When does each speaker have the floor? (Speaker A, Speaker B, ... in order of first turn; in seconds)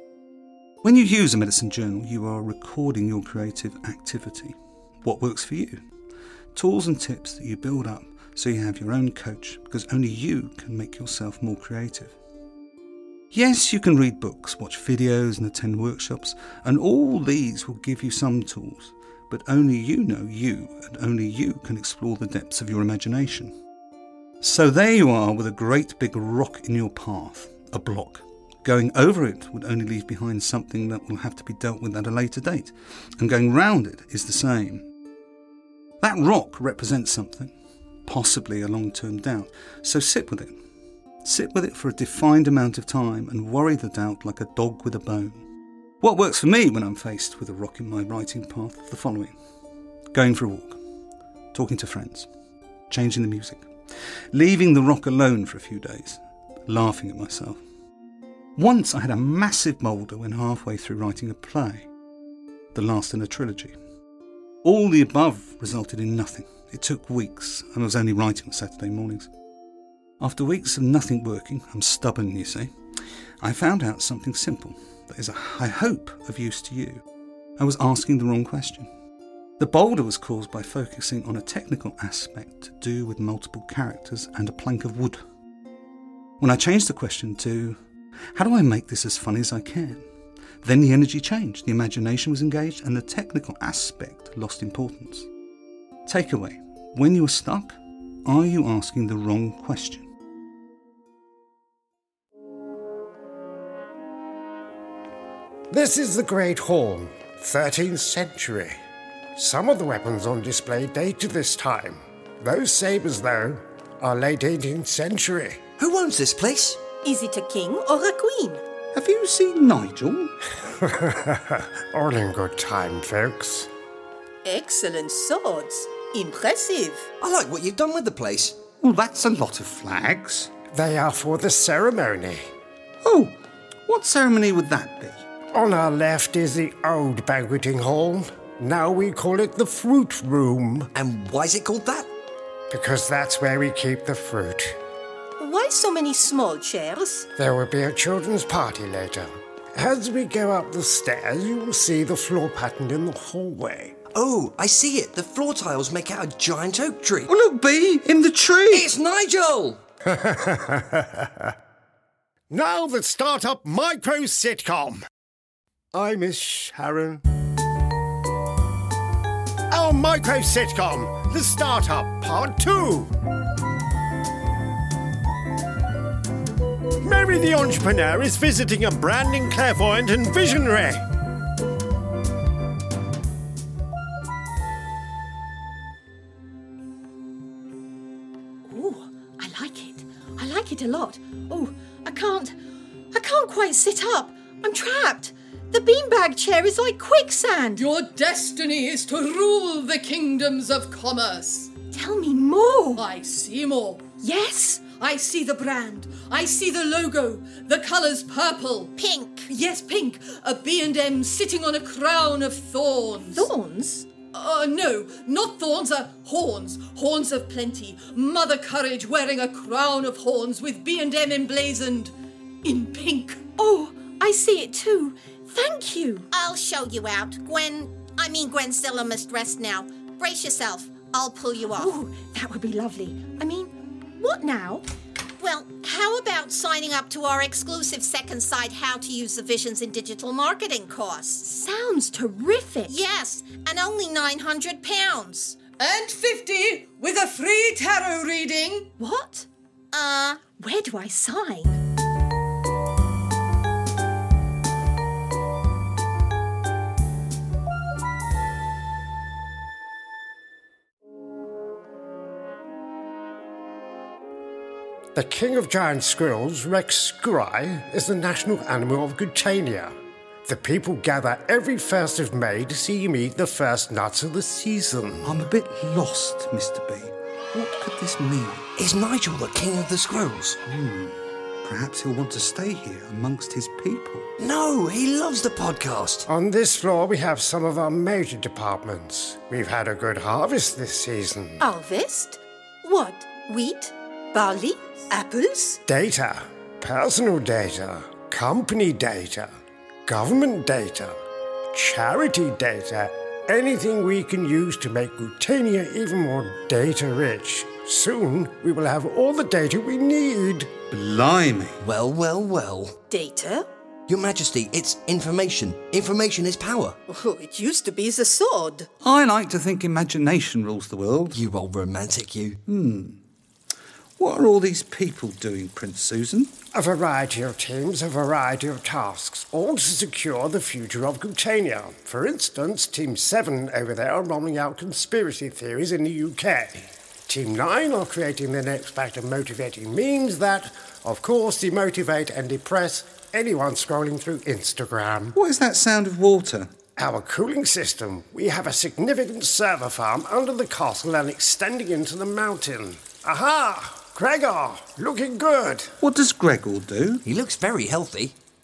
Speaker A: 0.8-5.8, 6.5-12.2, 13.3-23.5, 24.4-34.9, 36.0-37.5, 38.0-40.5, 41.2-45.4, 46.0-49.3, 50.1-50.8, 51.5-52.3, 52.9-53.7, 54.3-57.6, 58.5-61.9, 62.7-63.8, 64.6-69.3, 70.2-72.7, 73.4-77.0, 77.6-78.9, 79.6-85.2, 86.4-87.8, 88.3-90.0, 90.6-95.3, 96.0-100.1, 118.9-120.3, 128.8-130.5, 133.0-135.2, 157.3-158.9, 275.2-278.6, 280.7-284.3, 310.9-311.8, 319.0-321.4, 322.7-323.2, 324.2-326.5, 345.3-346.7, 356.0-357.2
Speaker B: 105.7-108.8, 109.3-115.6, 120.8-123.7, 130.7-132.5, 135.5-140.9, 142.7-144.8, 147.4-154.0, 160.1-161.5, 162.5-165.1, 165.9-167.2, 169.7-173.1, 177.0-181.0, 265.1-269.9, 270.4-275.3, 286.3-291.6, 295.9-299.5, 300.1-301.2, 301.7-310.7, 326.7-345.3, 347.0-355.9
Speaker C: 115.8-116.8, 127.2-128.6, 140.9-142.1, 154.1-157.3, 158.7-159.8, 278.8-280.6, 284.4-286.3, 311.8-313.0, 314.1-316.9, 321.3-322.6, 357.2-358.4
Speaker D: 117.0-118.6, 124.4-127.1, 145.4-147.3, 188.7-192.5, 193.1-197.9, 201.9-203.1, 204.2-205.0, 213.3-214.1, 223.2-226.2, 231.7-234.8, 241.4-243.0, 249.0-249.5, 250.5-251.8, 291.6-295.8, 313.1-313.7, 317.1-318.9
Speaker E: 197.8-201.7, 202.9-204.0, 205.0-208.9, 209.5-213.5, 214.2-222.1, 222.6-223.3, 245.7-248.9
Speaker F: 208.9-209.5, 226.3-232.0, 235.4-241.4, 242.9-245.6, 249.9-250.4